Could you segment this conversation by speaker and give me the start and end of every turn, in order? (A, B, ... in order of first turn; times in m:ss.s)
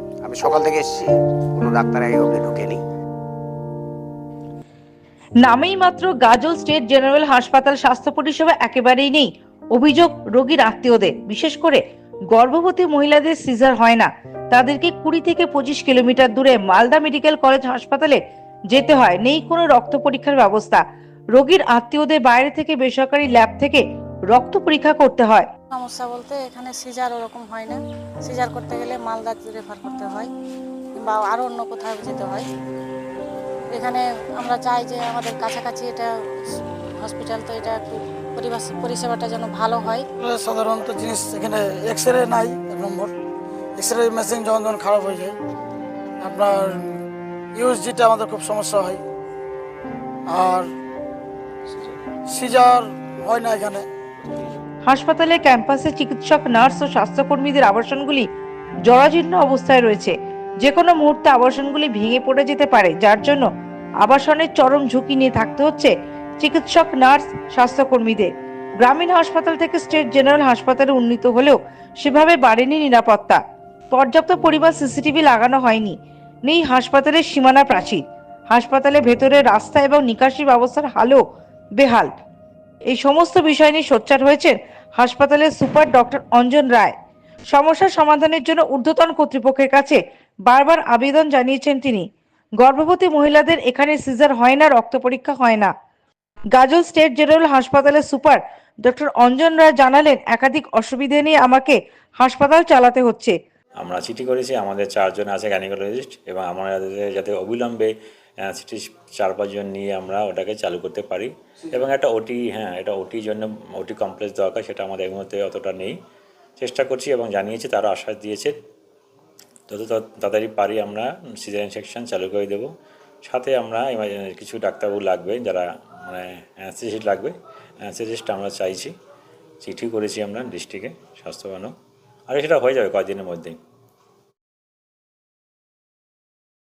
0:00.2-0:02.8 A
0:05.4-0:11.8 B
0:12.3-0:18.2 B
0:18.7-0:20.8 B
0:21.4-0:25.5 B
0:25.7-0:30.3 C
0:31.0-0:32.5 C
0:33.7-0:40.1 C
0:40.4-0:43.0 D
0:43.8-0:44.4 D
0:47.6-0:48.9 D
0:52.4-0:52.7 D
0:53.3-0:53.8 D
0:54.9-0:58.3 B
0:58.9-1:03.4 B
1:04.0-1:08.3 B
1:08.8-1:13.4 B
1:13.9-1:16.0 B
1:16.5-1:21.2 B
1:21.8-1:22.1 B
1:22.9-1:26.9 B
1:27.5-1:32.1 B
1:32.6-1:35.7 B
1:36.6-1:43.4 B
1:43.8-1:47.9 E
1:48.5-1:56.0 E
1:56.6-1:58.5 E
1:59.7-2:02.7 E
2:03.2-2:08.9 E
2:09.6-2:11.7 E
2:12.3-2:13.6 E